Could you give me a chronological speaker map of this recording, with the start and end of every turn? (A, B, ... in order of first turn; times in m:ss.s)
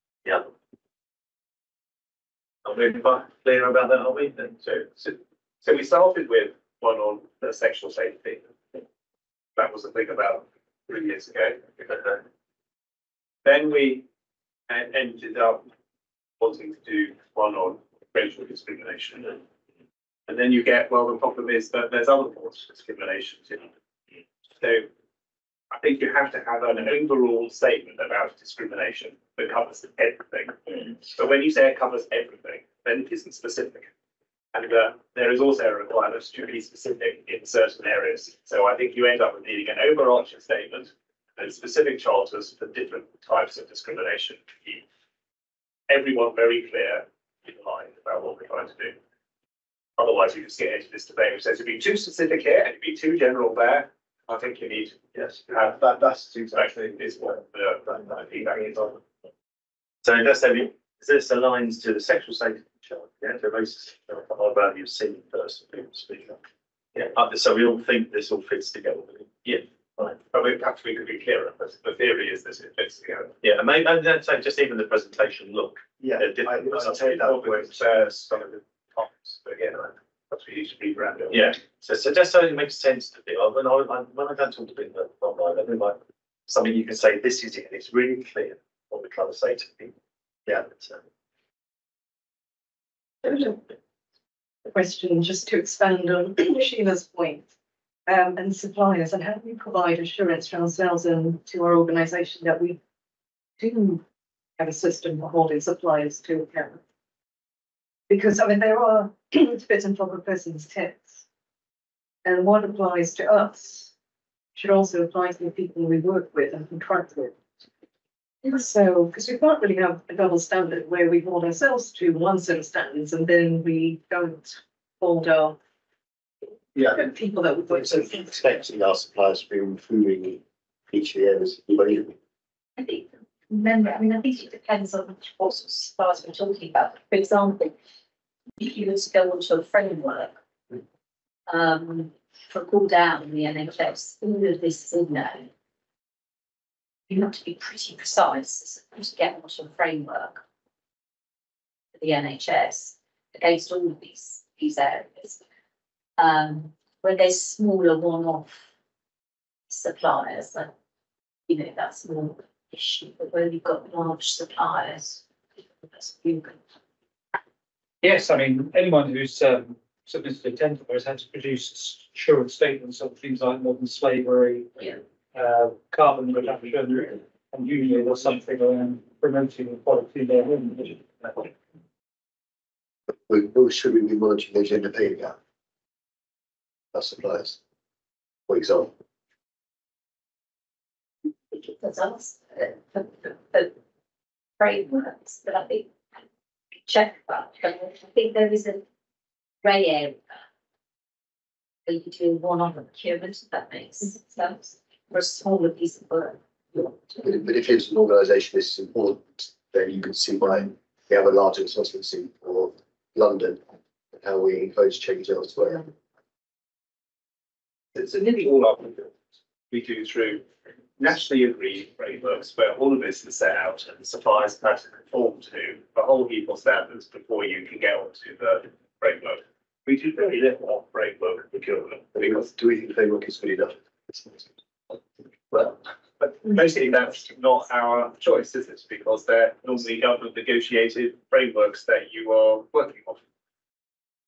0:00.2-0:00.5 A
0:02.6-0:04.9 A
0:04.9-0:08.5 B
0:09.6-0:12.2 B
0:13.4-0:14.0 B
0:14.7-0:15.6 B
0:16.4-0:19.4 B
0:20.3-0:23.7 B
0:24.6-0:24.9 B
0:25.7-0:33.9 B
0:34.5-0:44.8 B
0:45.9-0:49.0 B
0:50.0-0:55.7 B
0:55.7-0:56.7 C
0:56.5-0:59.0 B
1:00.0-1:06.4 A
1:06.9-1:10.1 A
1:10.1-1:13.4 B
1:13.4-1:19.9 A
1:16.0-1:18.4 C
1:20.3-1:21.5 B
1:21.3-1:29.9 A
1:30.5-1:31.0 A
1:33.2-1:33.6 D
1:34.6-1:37.5 D
1:38.1-1:42.8 D
1:43.6-1:44.0 D
1:44.6-1:46.8 D
1:48.1-1:51.2 D
1:52.2-1:53.9 D
1:54.5-1:57.4 D
1:58.4-2:05.6 D
2:06.9-2:08.4 D
2:07.7-2:12.1 E
2:12.8-2:17.7 F
2:18.6-2:20.4 F
2:21.5-2:25.5 F
2:27.1-2:30.4 F
2:31.9-2:35.4 F
2:36.2-2:38.6 F
2:39.7-2:40.7 F
2:41.5-2:45.2 F
2:45.9-2:46.6 F
2:48.0-3:01.5 G
3:03.3-3:05.3 E
3:06.9-3:07.6 E
3:08.5-3:08.9 E
3:11.5-3:13.7 F
3:14.6-3:15.9 F
3:16.8-3:18.8 F
3:19.6-3:20.2 F
3:21.8-3:26.9 F
3:27.2-3:33.6 E
3:34.2-3:35.8 E
3:37.9-3:39.1 B
3:39.7-3:40.4 B
3:41.0-3:52.1 B
3:52.1-3:54.3 E
3:55.5-4:03.2 B